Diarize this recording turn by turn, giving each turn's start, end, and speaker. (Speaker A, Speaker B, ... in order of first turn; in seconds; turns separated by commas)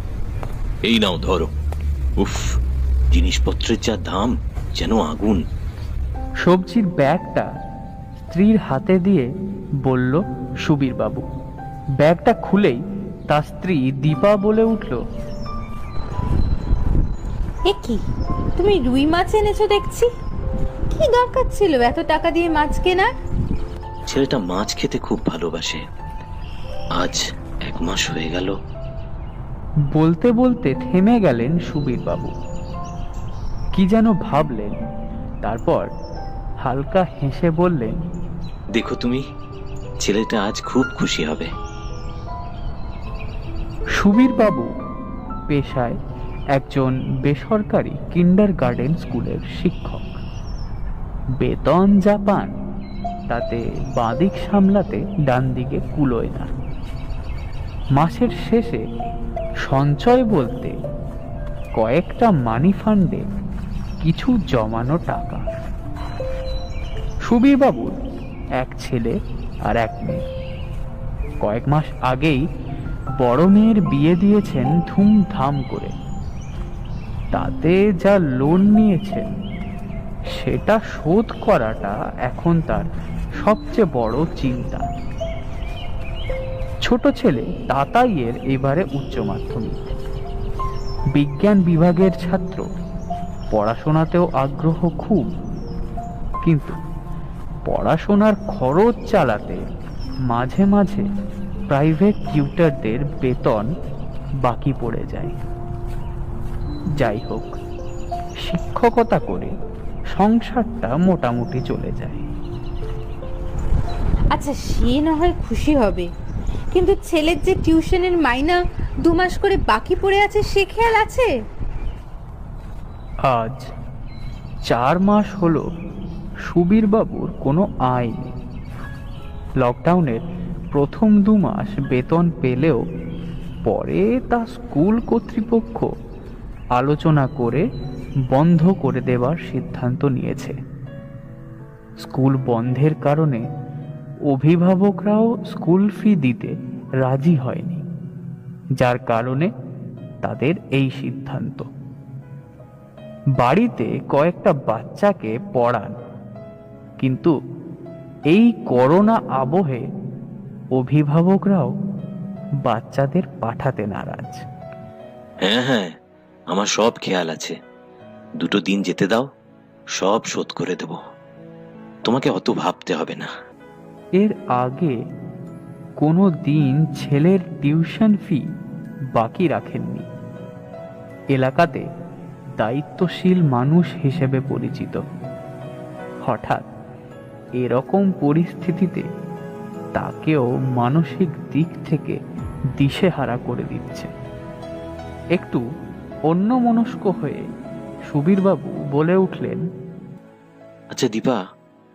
Speaker A: 0.8-1.5, Speaker A: 2.2-2.4, Speaker A: 3.1-5.4, Speaker B: 6.4-7.5, Speaker B: 8.3-9.3, Speaker B: 9.8-11.2, Speaker B: 12.0-15.0, Speaker C: 17.7-18.0, Speaker C: 18.6-20.1, Speaker C: 20.9-23.1, Speaker A: 24.1-25.8, Speaker A: 27.0-28.5, Speaker B: 29.9-32.3, Speaker B: 33.7-34.8, Speaker B: 35.4-35.9, Speaker B: 36.6-38.0, Speaker A: 38.7-39.2, Speaker A: 40.0-41.5, Speaker B: 44.0-44.7, Speaker B: 45.5-45.9, Speaker B: 46.5-50.2, Speaker B: 51.4-52.5, Speaker B: 53.3-56.5, Speaker B: 58.0-58.8, Speaker B: 59.6-60.7, Speaker B: 61.8-63.2, Speaker B: 64.0-65.4, Speaker B: 67.3-68.0, Speaker B: 68.6-70.2, Speaker B: 71.4-72.4, Speaker B: 73.2-75.9, Speaker B: 77.3-79.3, Speaker B: 80.3-82.9, Speaker B: 83.4-84.9, Speaker B: 86.8-89.7, Speaker B: 91.1-92.6, Speaker B: 93.5-95.2, Speaker B: 96.4-96.7, Speaker B: 97.7-99.6, Speaker B: 100.3-101.0, Speaker B: 101.7-103.7, Speaker B: 104.4-105.3, Speaker B: 107.0-107.5, Speaker B: 108.4-109.5, Speaker B: 110.1-112.2, Speaker C: 114.3-116.1, Speaker C: 116.7-121.3, Speaker B: 123.3-123.7, Speaker B: 124.7-125.6, Speaker B: 126.5-128.3, Speaker B: 129.6-132.8, Speaker B: 133.7-135.9, Speaker B: 136.8-137.6, Speaker B: 138.3-140.5, Speaker B: 142.0-143.4, Speaker B: 144.3-146.5, Speaker B: 147.0-147.8, Speaker B: 148.8-149.5, Speaker B: 150.2-151.7, Speaker B: 153.4-155.9, Speaker B: 157.0-157.3, Speaker B: 158.3-159.8, Speaker B: 160.8-161.7, Speaker B: 162.6-164.4, Speaker A: 165.4-165.9, Speaker A: 166.5-167.5, Speaker A: 168.4-169.3, Speaker A: 170.0-171.0, Speaker A: 172.1-173.3, Speaker B: 174.2-174.9, Speaker B: 176.0-178.4, Speaker B: 179.1-180.1, Speaker B: 181.3-181.8, Speaker B: 182.6-185.0, Speaker B: 186.2-186.7, Speaker B: 187.6-189.0, Speaker B: 189.9-192.2, Speaker B: 192.8-194.1, Speaker B: 195.3-195.6, Speaker B: 196.3-197.4, Speaker B: 198.1-199.6, Speaker A: 200.9-201.4